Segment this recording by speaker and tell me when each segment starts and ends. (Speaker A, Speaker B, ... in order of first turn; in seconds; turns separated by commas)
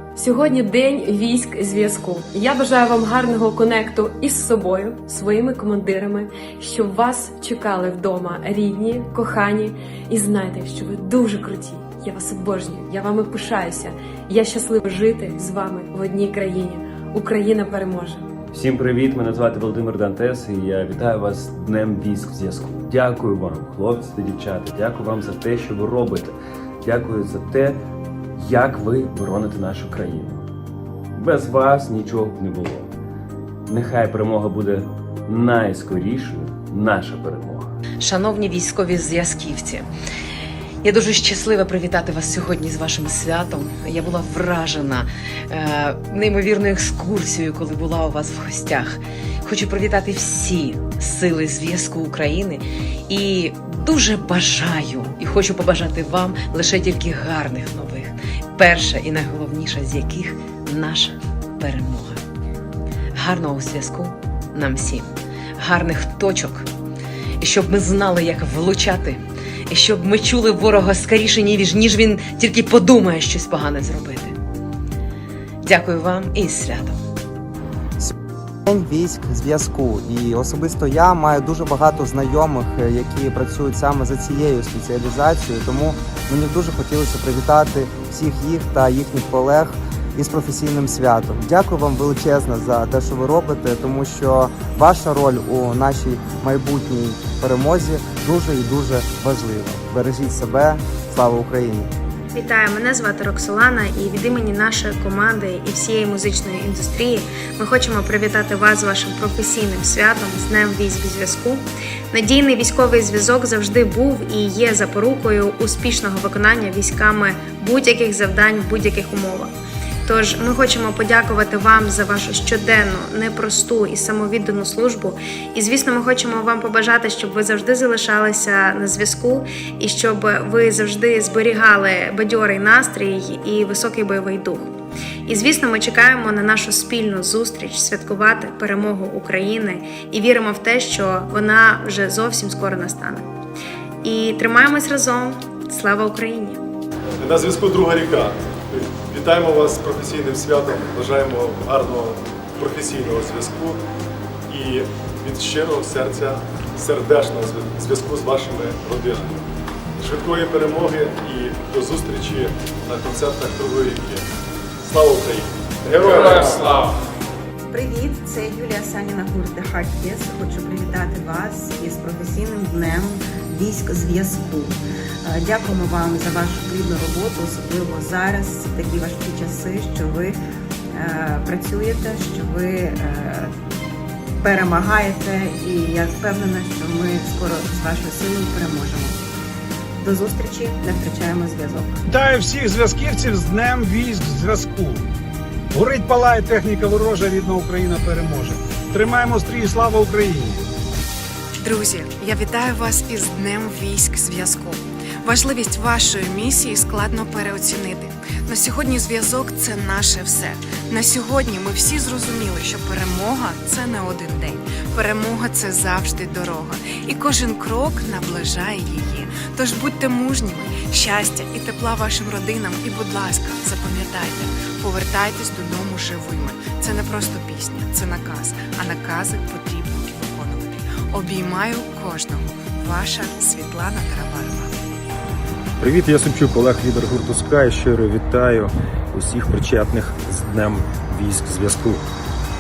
Speaker A: 0.2-18.2, Speaker B: 18.5-27.8, Speaker B: 28.4-30.4, Speaker B: 31.1-32.9, Speaker B: 33.7-37.7, Speaker C: 38.0-39.9, Speaker C: 40.8-62.2, Speaker C: 63.1-66.7, Speaker C: 67.4-74.4, Speaker C: 75.6-77.0, Speaker D: 78.7-101.9, Speaker E: 102.3-119.5, Speaker E: 120.0-134.7, Speaker E: 135.3-143.3, Speaker E: 144.0-146.6, Speaker F: 147.2-153.8, Speaker F: 154.5-159.4, Speaker F: 160.0-164.2, Speaker F: 164.8-166.8, Speaker G: 167.7-180.4, Speaker G: 180.9-183.5, Speaker G: 184.4-189.2, Speaker G: 190.0-192.0, Speaker H: 192.1-195.0, Speaker H: 195.7-200.6, Speaker I: 201.6-234.7, Speaker J: 235.8-242.0